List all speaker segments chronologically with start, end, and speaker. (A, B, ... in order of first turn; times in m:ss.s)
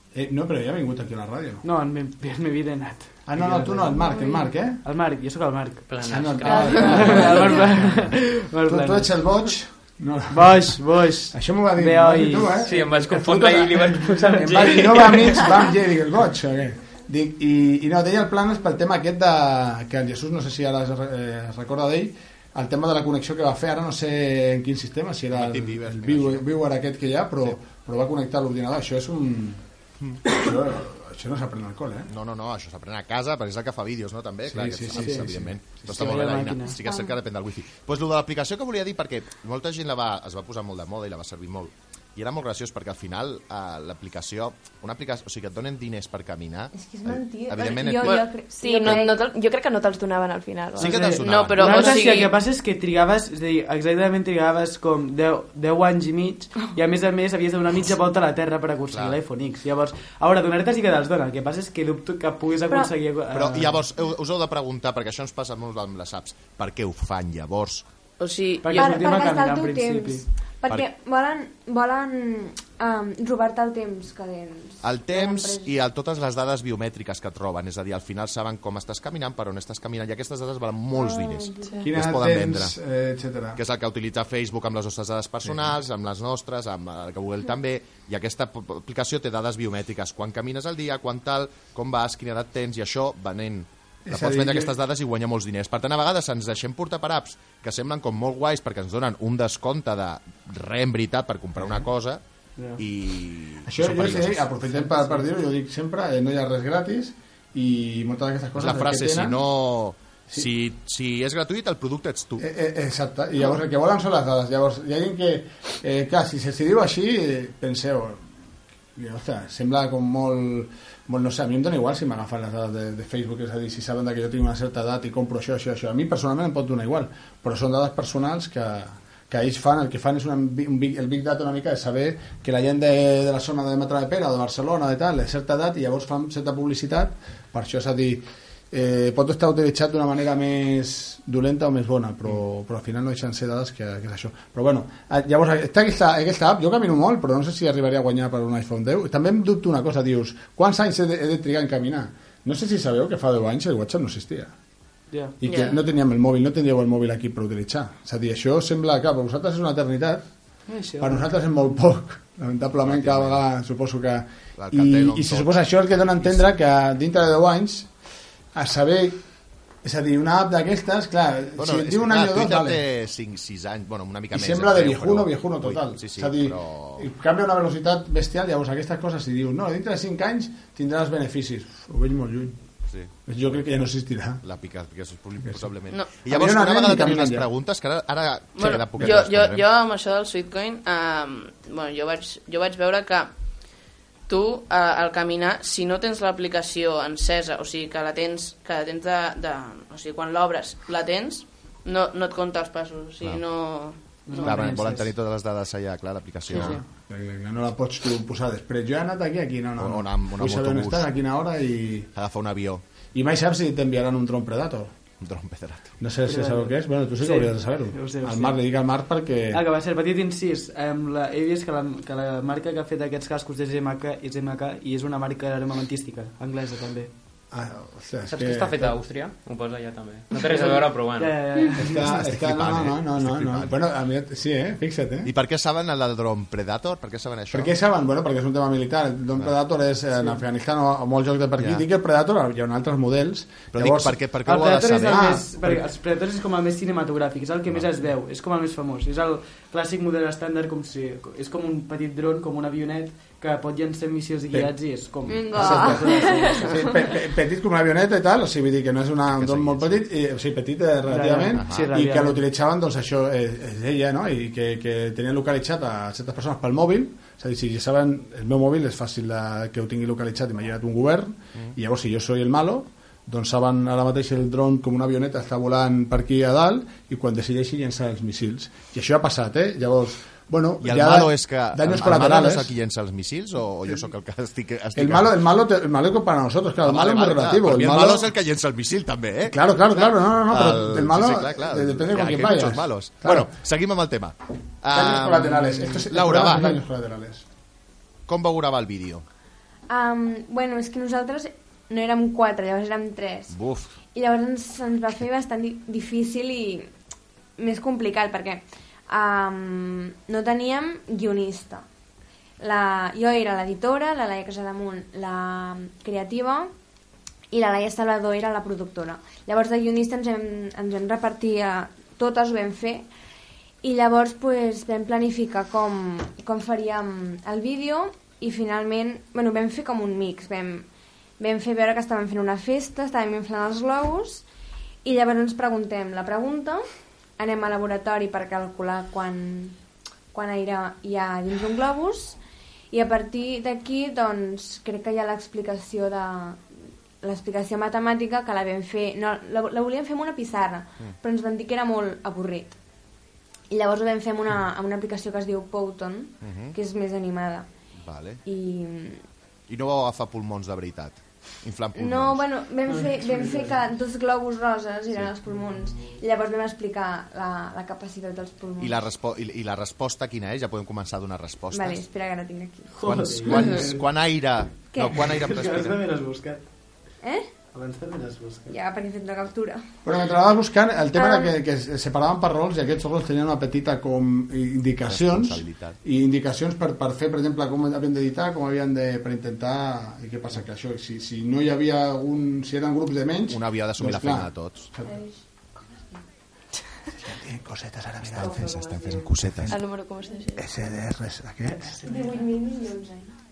0:00.1-0:01.6 A
0:01.6-0:04.2 B
0:03.3-0:04.8 A
0:04.8-0:06.0 B
0:05.9-0:07.4 C
0:06.0-0:29.6 A
0:06.6-0:09.1 B
0:10.3-0:12.6 B
0:12.6-0:15.4 C
0:25.3-0:26.5 D
0:30.2-0:32.1 A
0:32.1-0:48.3 D
0:34.4-0:36.2 A
0:35.0-0:35.3 B
0:35.9-0:36.7 B
0:36.8-0:37.1 E
0:46.7-0:49.3 E
0:48.0-0:51.2 F
0:50.8-0:51.8 D
0:50.8-1:03.8 B
0:51.2-0:52.3 G
0:58.9-0:59.2 D
1:02.7-1:02.9 E
1:03.3-1:07.8 D
1:08.2-1:09.0 G
1:08.6-1:10.2 B
1:08.7-1:15.7 E
1:14.8-1:22.7 D
1:20.9-1:21.9 E
1:21.8-1:23.6 A
1:23.5-1:42.2 D
1:34.0-1:34.7 A
1:42.6-1:42.8 B
1:42.8-1:44.5 D
1:43.6-1:49.4 A
1:44.9-1:45.1 B
1:48.6-1:52.4 D
1:52.4-1:58.3 A
1:58.9-2:34.5 A
2:35.1-2:35.4 B
2:35.4-2:40.2 A
2:35.4-2:35.8 G
2:40.7-2:41.3 B
2:41.0-2:47.9 A
2:42.8-2:43.4 D
2:44.6-2:45.6 D
2:46.1-2:46.4 D
2:48.5-2:49.2 A
2:49.8-2:52.8 A
2:51.6-2:57.1 D
2:54.3-3:02.6 A
3:03.2-3:04.4 A
3:04.4-3:09.6 D
3:06.3-3:07.5 A
3:08.6-3:13.3 G
3:14.3-3:24.8 G
3:24.2-3:25.1 B
3:24.4-3:26.8 D
3:26.5-3:26.8 B
3:26.5-3:32.1 A
3:29.8-3:31.0 D
3:32.1-3:32.8 D
3:33.1-3:34.9 A
3:35.2-3:35.9 D
3:36.0-3:39.6 A
3:36.2-3:38.6 B
3:39.5-3:47.1 B
3:47.5-3:49.0 A
3:48.2-3:51.3 C
3:50.4-3:52.2 B
3:51.7-3:55.3 A
3:52.1-3:53.7 D
3:55.2-3:57.7 D
3:57.5-4:04.2 A
4:01.6-4:01.8 D
4:03.7-4:05.4 D
4:04.4-4:16.8 B
4:05.0-4:05.8 A
4:15.2-4:16.9 E
4:15.5-4:42.7 A
4:19.3-4:20.0 D
4:21.1-4:22.4 B
4:21.5-4:21.9 D
4:40.8-4:45.3 D
4:45.0-4:48.3 A
4:46.8-4:49.6 D
4:49.4-4:53.5 A
4:50.4-4:56.8 D
4:54.9-4:57.4 A
4:58.3-4:59.2 D
4:59.9-5:03.6 E
5:03.5-5:04.0 D
5:04.1-5:06.9 E
5:07.6-5:11.8 E
5:12.6-5:16.7 E
5:17.5-5:23.1 E
5:23.8-5:30.9 E
5:31.4-5:34.4 E
5:35.0-5:36.8 E
5:37.4-5:39.8 E
5:40.3-5:42.4 E
5:42.9-5:46.6 E
5:47.2-5:52.7 E
5:53.7-5:57.7 E
5:56.4-5:56.8 D
5:58.0-5:58.4 D
5:58.4-5:59.2 E
5:59.7-6:02.4 D
6:01.9-6:09.1 E
6:02.8-6:03.8 B
6:08.8-6:12.0 D
6:11.7-6:13.0 E
6:12.9-6:14.2 B
6:13.0-6:16.0 D
6:14.9-6:15.3 E
6:15.2-6:16.6 B
6:17.2-6:17.5 E
6:17.7-6:18.8 B
6:18.7-6:19.8 E
6:20.0-6:35.1 A
6:21.1-6:21.5 E
6:25.1-6:26.0 D
6:33.5-6:34.9 D
6:37.2-6:39.8 A
6:38.2-6:39.7 D
6:38.7-6:39.1 G
6:39.7-6:40.6 F
6:40.6-6:42.0 A
6:41.7-6:42.4 B
6:42.2-6:43.2 E